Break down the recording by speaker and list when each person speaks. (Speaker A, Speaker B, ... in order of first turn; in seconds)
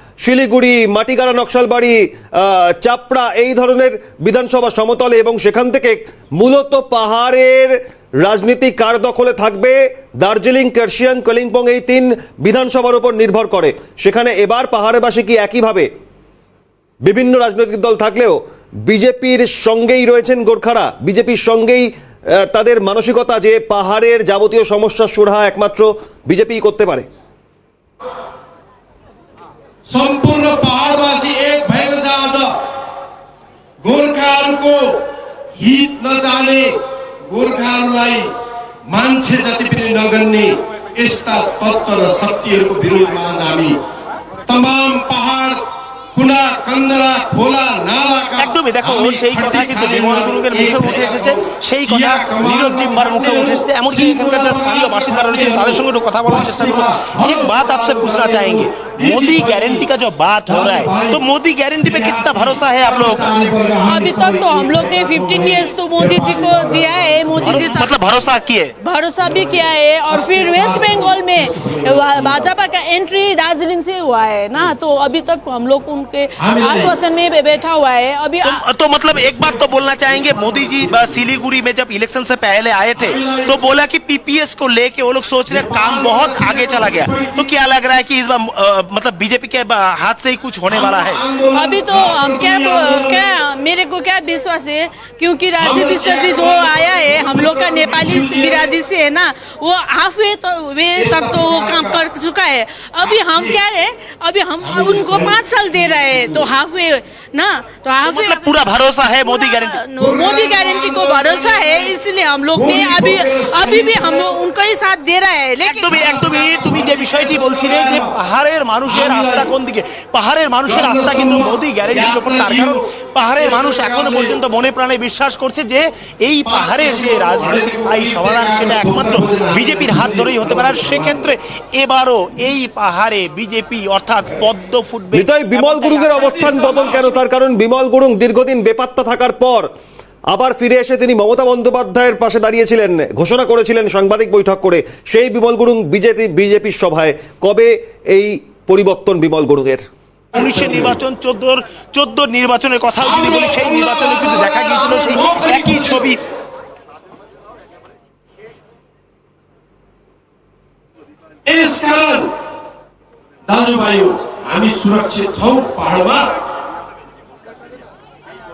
Speaker A: 0.2-15.9, 17.1-27.1, 135.1-139.7, 140.3-149.8
Speaker B: 29.9-32.5, 33.8-34.9, 35.5-36.7, 37.3-38.3, 38.9-43.8, 44.5-45.6, 46.1-59.9, 60.5-61.2, 61.8-67.7, 69.2-72.6, 76.4-77.0, 80.2-81.0, 83.0-83.6, 85.5-87.5, 90.7-93.3, 95.6-98.8, 101.0-102.1, 103.0-103.6, 104.6-106.5, 110.0-112.0, 112.5-114.4, 115.9-118.2, 118.9-119.5, 120.7-124.4, 126.4-131.3, 150.3-151.0, 153.0-156.1, 161.5-162.3, 163.5-166.3
Speaker C: 48.4-63.3, 67.4-68.7, 78.4-91.2, 108.0-109.8, 115.6-137.2, 150.3-156.2
Speaker D: 63.8-68.1, 68.8-78.7, 91.5-116.1